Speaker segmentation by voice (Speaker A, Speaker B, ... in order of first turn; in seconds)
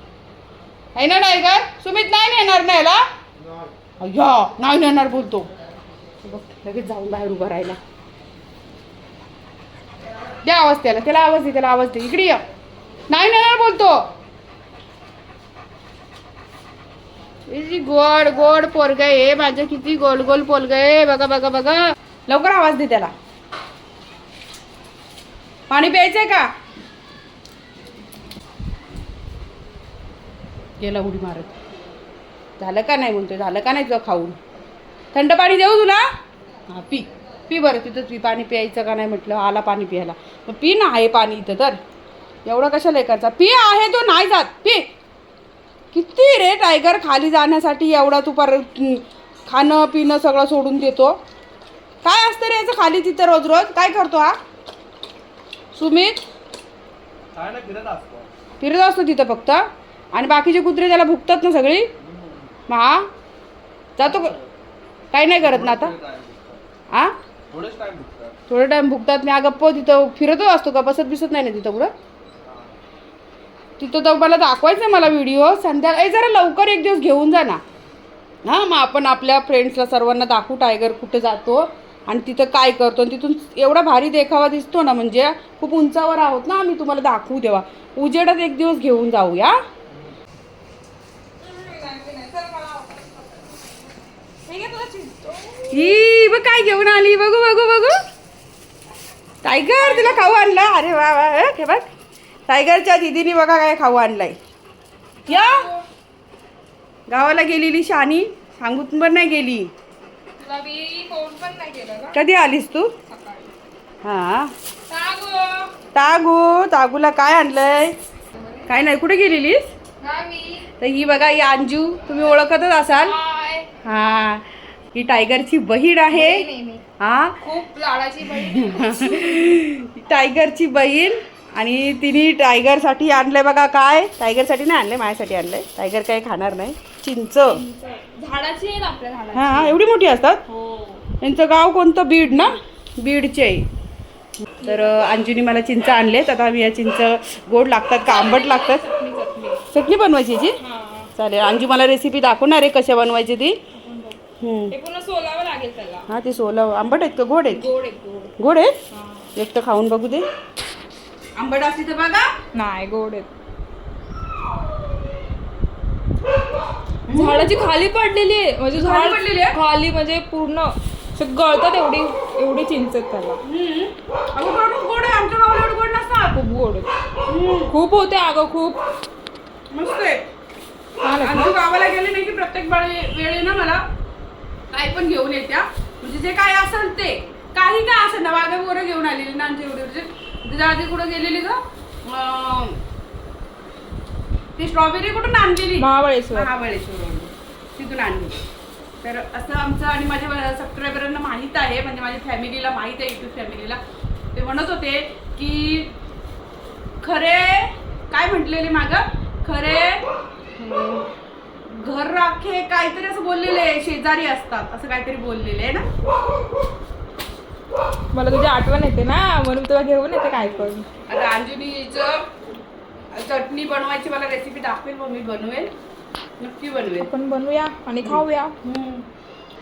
Speaker A: 1.0-3.0, 4.0-5.5, 6.2-7.8, 10.4-12.4, 13.1-14.0, 17.5-23.1, 25.7-26.5, 30.8-31.6, 32.6-34.4, 35.1-36.1, 36.7-41.8, 42.5-44.9, 45.9-51.2, 52.0-54.4, 55.7-56.2, 58.6-61.9, 62.7-63.1, 64.0-64.4, 65.1-65.9, 66.9-67.2, 68.5-71.9, 73.8-77.6, 78.5-89.6, 95.7-98.0, 99.4-101.9, 102.5-104.4, 105.3-105.7, 107.1-109.7, 112.1-112.9, 114.0-114.5, 115.9-118.0, 118.7-119.7, 120.8-123.2, 123.8-126.5, 127.0-127.4, 128.3-137.6, 139.3-140.4, 141.2-143.7, 144.5-148.8, 149.7-150.6, 151.2-153.6, 154.4-154.8, 156.1-157.7, 158.4-158.8, 159.3-160.3, 161.4-162.3, 167.1-167.5, 168.8-169.6, 173.4-176.4, 177.3-177.8, 179.7-180.2, 181.2-183.8, 184.7-192.8, 194.6-198.4, 199.0-203.8, 204.3-205.9, 207.0-210.0, 210.6-211.1, 211.7-215.8, 220.4-222.3, 223.1-225.7, 226.4-227.1, 228.0-229.1
Speaker B: 57.3-58.3, 65.5-66.6, 67.5-68.4
Speaker C: 91.4-93.9, 94.5-96.0, 99.5-100.4, 105.3-105.9, 110.4-112.2, 113.0-113.5, 114.9-115.7, 118.4-118.6, 120.0-120.7, 123.0-123.7, 126.1-126.8, 127.4-129.5, 137.5-139.8, 140.5-141.1, 144.6-145.1, 148.1-149.6, 150.6-151.1, 153.7-154.2, 154.7-156.1, 157.5-158.3, 158.9-159.3, 162.5-163.3, 167.1-173.4, 176.3-176.9, 177.7-178.8, 181.0-181.6, 195.8-196.5, 218.1-220.9, 226.9-228.6